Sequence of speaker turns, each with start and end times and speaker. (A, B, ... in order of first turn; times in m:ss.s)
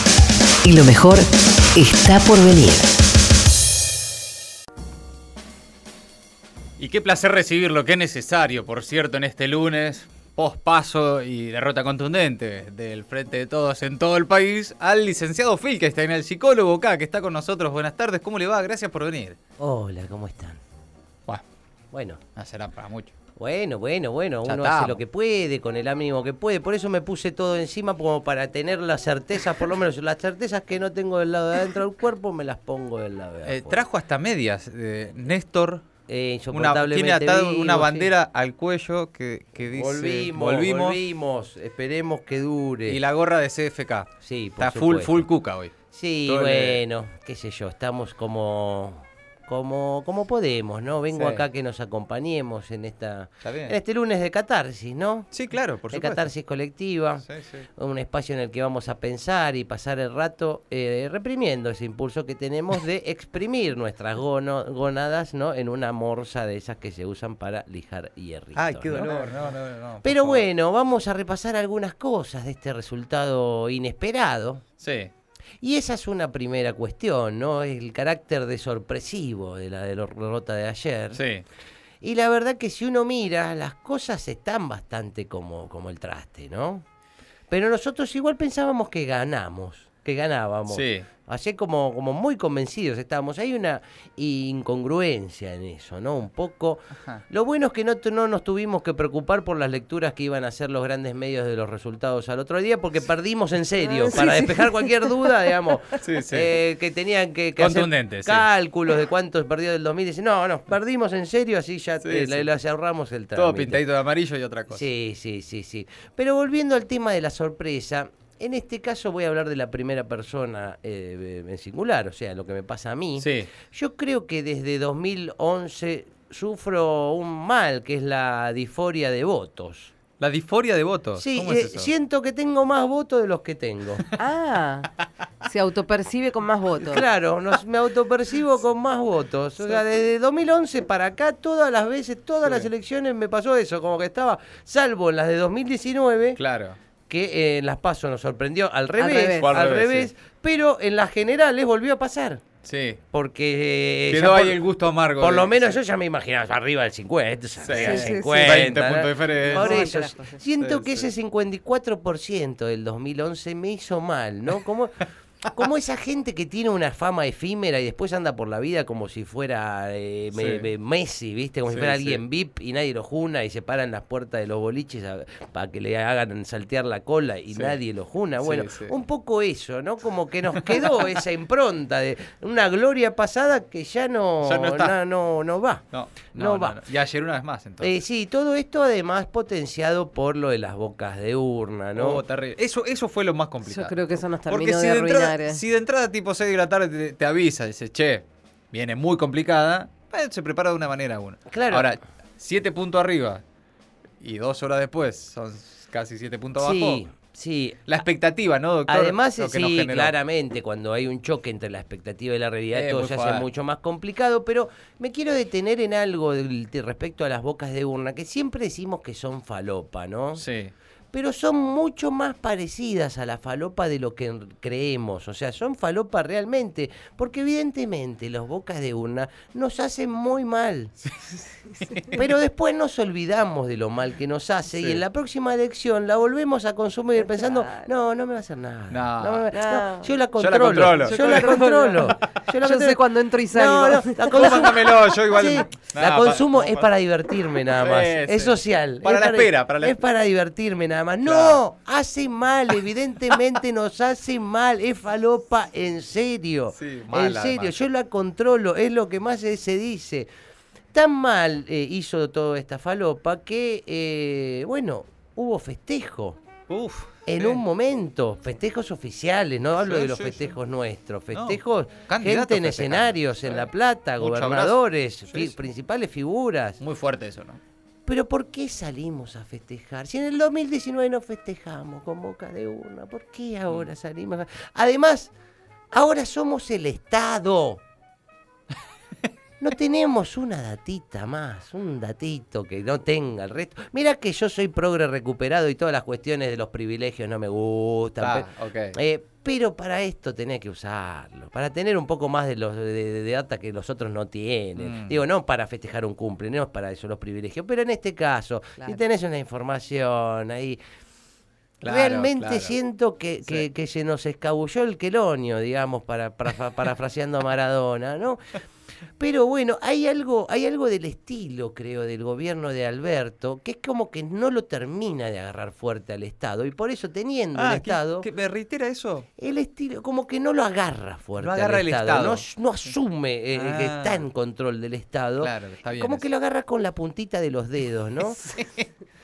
0:00.6-0:02.9 A
0:06.8-0:19.4 B
0:19.6-0:20.6 C
0:21.9-0:22.2 C
0:22.4-0:23.1 B
0:23.4-0:33.8 C
0:24.4-0:25.0 B
0:33.4-0:35.8 B
0:36.1-0:38.1 C
0:36.5-0:41.0 B
0:39.7-0:43.0 C
0:42.9-0:45.7 B
0:44.2-0:45.2 C
0:45.9-0:55.3 C
0:46.2-0:46.8 B
0:51.1-0:51.4 B
0:53.4-0:53.8 B
0:55.3-0:56.3 B
0:55.9-0:57.2 C
0:57.2-0:57.7 B
0:57.8-1:09.4 C
1:08.6-1:10.5 B
1:10.0-1:14.6 C
1:14.8-1:15.1 B
1:15.6-1:21.2 C
1:21.1-1:21.4 B
1:22.0-1:26.8 C
1:27.5-1:53.8 C
1:30.7-1:31.1 B
1:43.8-1:45.3 D
1:46.0-1:46.6 B
1:47.6-1:48.5 B
1:52.0-1:52.5 B
1:53.3-1:54.9 B
1:54.7-2:09.9 C
2:03.2-2:03.5 B
2:10.2-2:11.9 B
2:11.2-2:14.1 C
2:14.2-2:14.9 D
2:15.4-2:17.0 D
2:16.8-2:26.4 C
2:22.4-2:22.7 B
2:26.4-2:26.8 B
2:27.1-2:32.4 C
2:29.0-2:29.5 D
2:29.4-2:30.1 B
2:32.6-2:33.0 B
2:33.1-2:34.6 C
2:34.1-2:35.8 B
2:35.1-3:05.8 C
2:37.6-2:39.8 B
2:37.7-2:38.6 D
2:39.4-2:40.4 D
2:40.6-2:41.1 B
2:50.3-2:50.7 B
2:51.7-2:52.2 B
2:57.5-2:57.8 B
2:58.4-2:59.0 B
3:04.4-3:05.0 B
3:05.9-3:08.0 B
3:06.3-3:06.8 C
3:07.8-3:12.2 C
3:11.9-3:23.4 B
3:13.6-3:15.6 D
3:21.5-3:21.9 C
3:24.2-3:27.0 B
3:26.6-3:27.8 C
3:27.8-3:30.2 B
3:28.9-3:40.4 C
3:32.7-3:33.5 B
3:40.3-3:40.7 B
3:41.1-3:50.9 C
3:52.1-4:20.3 C
3:54.7-3:55.0 B
3:57.2-3:57.9 D
3:58.9-3:59.5 B
3:59.5-4:00.1 D
4:00.3-4:01.6 B
4:01.0-4:04.7 D
4:04.3-4:06.9 B
4:07.6-4:10.0 B
4:11.2-4:11.6 B
4:16.7-4:17.8 B
4:20.9-4:26.4 C
4:26.7-4:27.6 B
4:27.3-4:36.8 C
4:29.8-4:30.6 B
4:31.3-4:35.6 B
4:36.8-4:37.6 B
4:38.0-4:45.3 C
4:45.9-4:47.8 C
4:49.6-5:10.8 C
4:58.2-4:59.0 B
5:04.8-5:05.2 B
5:11.8-5:12.7 B
5:11.8-5:18.6 C
5:19.2-5:28.3 C
5:27.5-5:29.3 B
5:29.4-5:38.4 C
5:31.4-5:32.4 B
5:33.5-5:34.2 B
5:35.4-5:36.2 B
5:38.5-5:38.9 B